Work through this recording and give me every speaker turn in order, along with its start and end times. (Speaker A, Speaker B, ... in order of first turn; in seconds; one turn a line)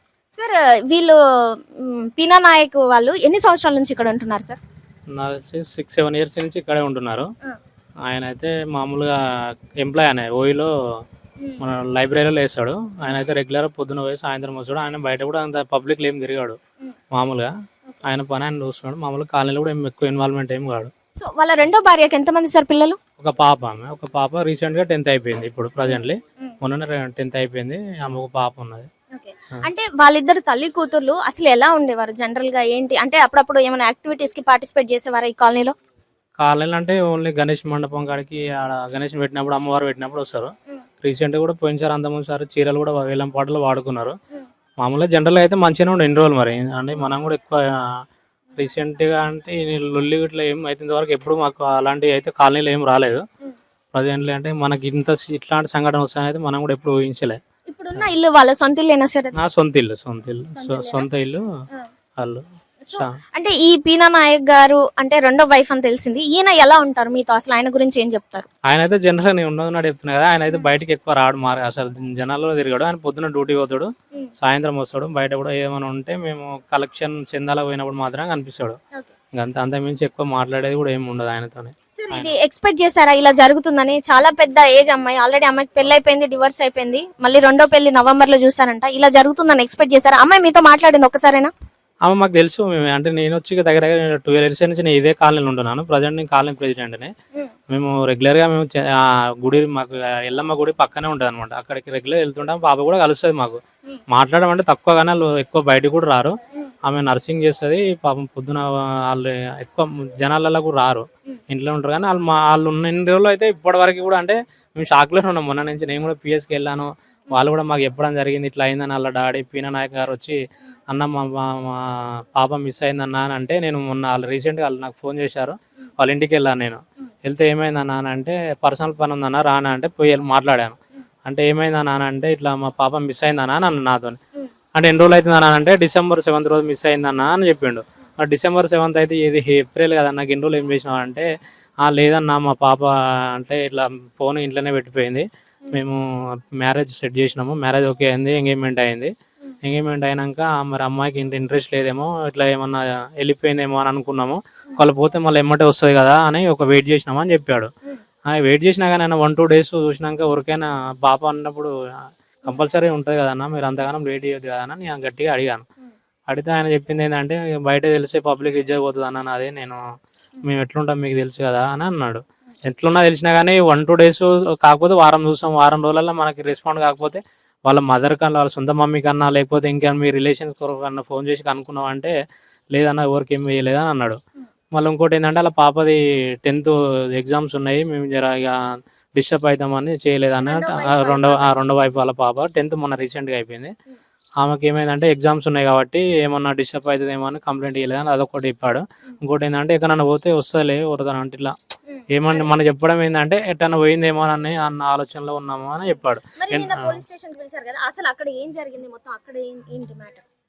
Speaker A: 0.3-4.6
Speaker B: 5.1-7.3
Speaker B: 8.1-10.7
Speaker B: 11.6-16.6
Speaker B: 17.1-17.5
Speaker B: 18.0-20.9
Speaker A: 21.2-23.0
Speaker B: 23.2-28.9
Speaker A: 25.9-26.5
Speaker A: 29.1-35.7
Speaker B: 36.4-44.1
Speaker B: 44.8-48.0
Speaker B: 48.6-53.2
Speaker B: 53.9-57.4
Speaker A: 57.7-59.4
Speaker B: 59.4-61.4
Speaker A: 60.5-61.1
Speaker B: 62.2-63.1
Speaker A: 62.9-68.5
Speaker B: 68.7-78.8
Speaker B: 79.3-82.3
Speaker A: 82.0-91.5
Speaker B: 92.0-97.1
Speaker B: 97.7-120.4
Speaker B: 120.9-134.2
Speaker B: 134.8-141.3
Speaker B: 141.8-157.7
Speaker B: 158.3-161.7
Speaker B: 162.4-165.7
Speaker B: 166.3-169.8
Speaker B: 170.4-182.1
Speaker B: 182.7-184.2
Speaker B: 184.7-193.7
Speaker A: 190.4-191.6
Speaker B: 194.4-201.6
Speaker A: 201.9-202.5
Speaker B: 202.1-207.0
Speaker A: 206.4-210.2